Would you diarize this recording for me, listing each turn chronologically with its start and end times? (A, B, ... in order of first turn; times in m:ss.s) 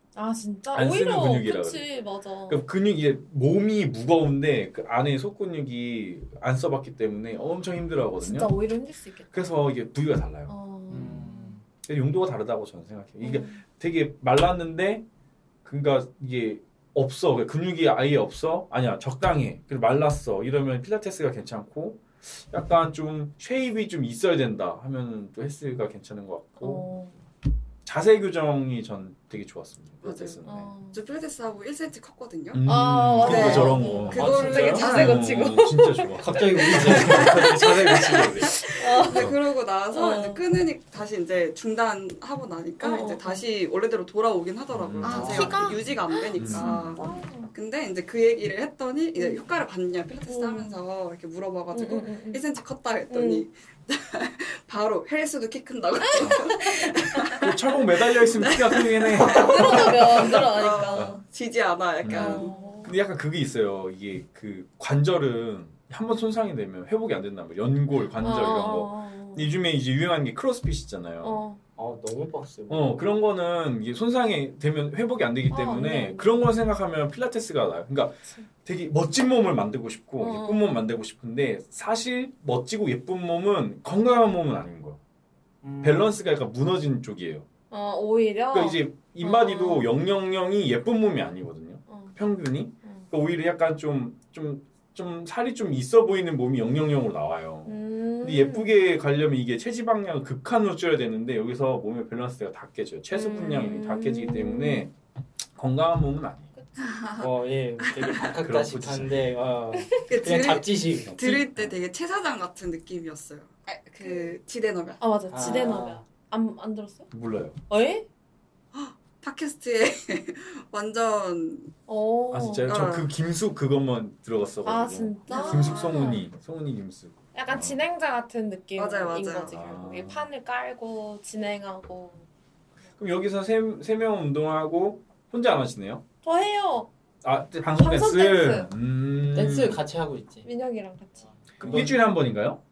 0:00.1-0:02.6 A
0:00.7-0:01.8 B
0:02.5-0:08.5 B
0:08.2-0:09.6 A
0:09.3-0:11.3 B
0:10.5-0:11.5 A
0:10.9-0:11.6 C
0:11.8-0:15.0 B
0:13.2-0:13.6 A
0:15.6-0:26.8 B
0:26.6-0:27.1 A
0:27.8-0:30.7 B
0:30.0-0:30.4 D
0:30.4-0:31.0 A
0:30.9-0:32.6 D
0:32.5-0:39.4 B
0:32.6-0:39.3 A
0:33.2-0:35.3 D
0:34.1-0:35.1 C
0:36.2-0:37.6 C
0:36.8-1:02.6 D
0:39.9-0:40.4 A
0:42.8-0:43.5 A
0:44.7-0:47.1 B
0:45.0-0:47.5 A
0:45.1-0:45.5 C
0:49.2-0:49.4 A
0:50.3-0:50.8 A
0:51.7-0:52.4 A
0:53.1-0:53.4 A
0:56.2-0:56.9 A
0:57.4-1:00.3 B
0:59.2-1:01.2 A
1:02.0-1:11.4 B
1:02.1-1:02.9 A
1:08.2-1:09.5 A
1:11.2-1:11.6 A
1:11.8-1:13.0 C
1:12.7-1:25.0 B
1:15.5-1:16.3 A
1:20.2-1:20.8 A
1:25.6-1:26.1 C
1:25.8-1:27.4 B
1:27.7-1:29.9 A
1:28.5-1:44.9 B
1:31.9-1:32.1 A
1:37.6-1:38.7 A
1:43.1-1:44.9 A
1:45.5-1:46.5 B
1:46.8-1:48.3 D
1:47.2-1:51.4 C
1:48.3-1:49.2 B
1:49.7-1:50.0 A
1:50.1-1:55.0 D
1:51.0-1:51.8 B
1:54.0-1:54.3 A
1:55.0-1:57.1 A
1:55.3-1:56.0 C
1:57.1-1:57.6 B
1:57.7-1:58.0 A
1:58.7-2:01.7 D
2:01.9-2:02.7 A
2:02.3-2:07.8 B
2:02.6-2:03.1 D
2:04.6-2:06.2 A
2:05.3-2:06.0 D
2:07.3-2:12.2 A
2:08.8-2:09.5 D
2:09.5-2:10.3 B
2:13.0-2:16.0 B
2:16.2-2:16.9 A
2:17.2-2:19.8 B
2:17.8-2:18.7 A
2:19.3-2:20.4 C
2:20.4-2:21.3 A
2:21.6-2:22.0 C
2:21.6-2:22.6 B